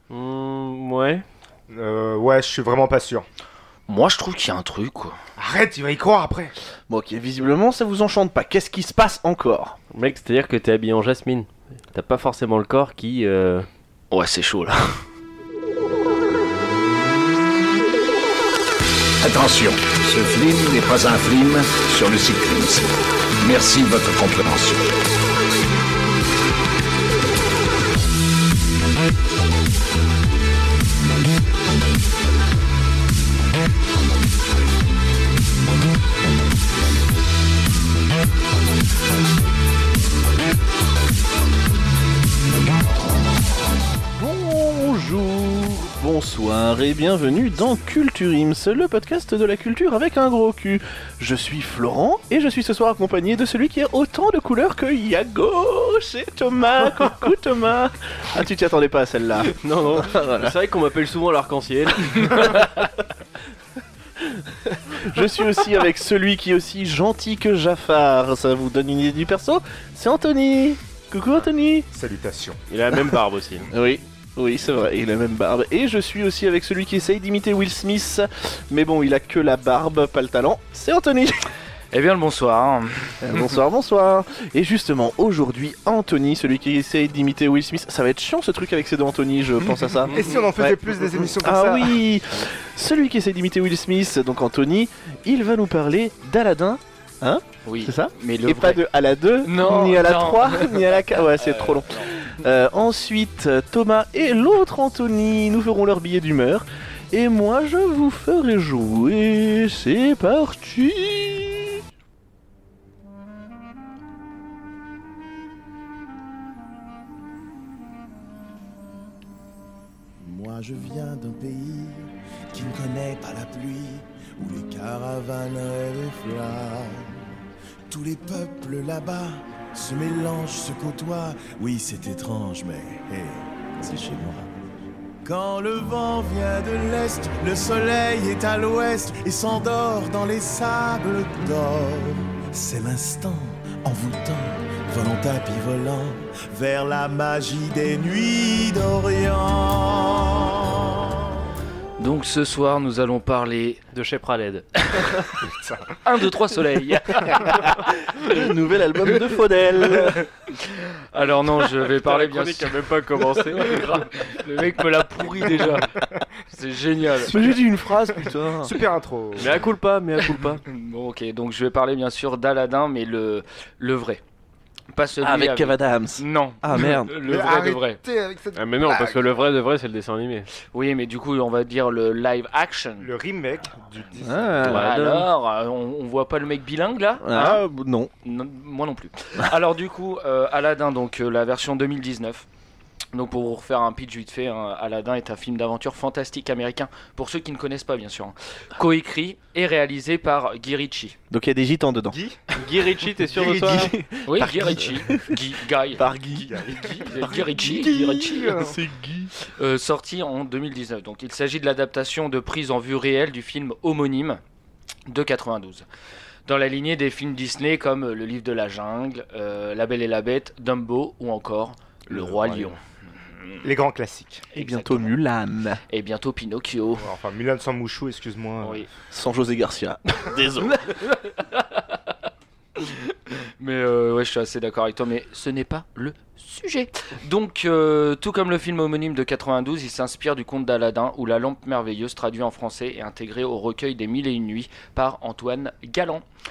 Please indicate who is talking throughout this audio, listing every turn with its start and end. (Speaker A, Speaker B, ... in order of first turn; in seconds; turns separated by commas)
Speaker A: 0.1-1.2, Speaker B: 1.7-3.3, Speaker C: 3.9-5.2, Speaker B: 5.4-6.5, Speaker D: 6.9-9.8, Speaker A: 9.9-13.7, Speaker C: 14.1-15.0, Speaker E: 19.2-22.9, Speaker F: 19.8-22.9, Speaker E: 23.4-24.8, Speaker F: 23.4-24.8, Speaker D: 44.2-60.6, Speaker A: 59.5-62.8, Speaker D: 64.2-71.9, Speaker B: 71.9-72.6, Speaker A: 72.7-73.7, Speaker D: 72.9-73.2, Speaker D: 73.7-81.5, Speaker C: 81.9-83.2, Speaker D: 83.2-111.8, Speaker C: 89.7-90.3, Speaker B: 90.1-92.0, Speaker C: 97.7-98.8, Speaker C: 99.4-102.2, Speaker F: 120.2-127.3, Speaker F: 127.9-134.6, Speaker F: 135.2-151.4, Speaker C: 152.0-153.8, Speaker A: 153.9-154.7, Speaker C: 154.8-155.4, Speaker B: 155.4-156.0, Speaker C: 156.1-157.7, Speaker D: 158.1-160.3, Speaker C: 159.9-162.8, Speaker A: 162.0-163.9, Speaker C: 163.5-165.9, Speaker B: 165.4-166.2, Speaker C: 166.5-167.6, Speaker D: 167.2-168.8, Speaker B: 168.6-169.7, Speaker A: 169.4-170.6, Speaker C: 170.7-174.2, Speaker C: 174.9-178.0, Speaker D: 175.2-177.1, Speaker B: 177.2-179.4, Speaker A: 178.6-180.5, Speaker C: 180.7-183.1, Speaker B: 183.0-184.8, Speaker D: 184.2-185.3, Speaker A: 184.6-184.9, Speaker C: 184.6-187.6, Speaker D: 187.2-188.1, Speaker C: 188.2-192.5, Speaker C: 193.1-201.2, Speaker D: 201.3-202.2, Speaker B: 202.1-202.5, Speaker A: 202.5-203.9, Speaker B: 203.4-203.8, Speaker D: 203.5-209.3, Speaker C: 204.3-206.1, Speaker B: 206.4-208.8, Speaker C: 206.7-208.6, Speaker C: 209.4-214.4, Speaker C: 215.1-215.9, Speaker C: 216.5-222.8, Speaker B: 222.1-222.7, Speaker B: 223.6-224.5, Speaker C: 224.5-225.1, Speaker D: 224.5-225.8, Speaker C: 225.9-227.1, Speaker B: 227.0-228.9, Speaker C: 228.6-228.9, Speaker D: 229.1-231.0, Speaker C: 230.7-232.0, Speaker C: 232.8-246.2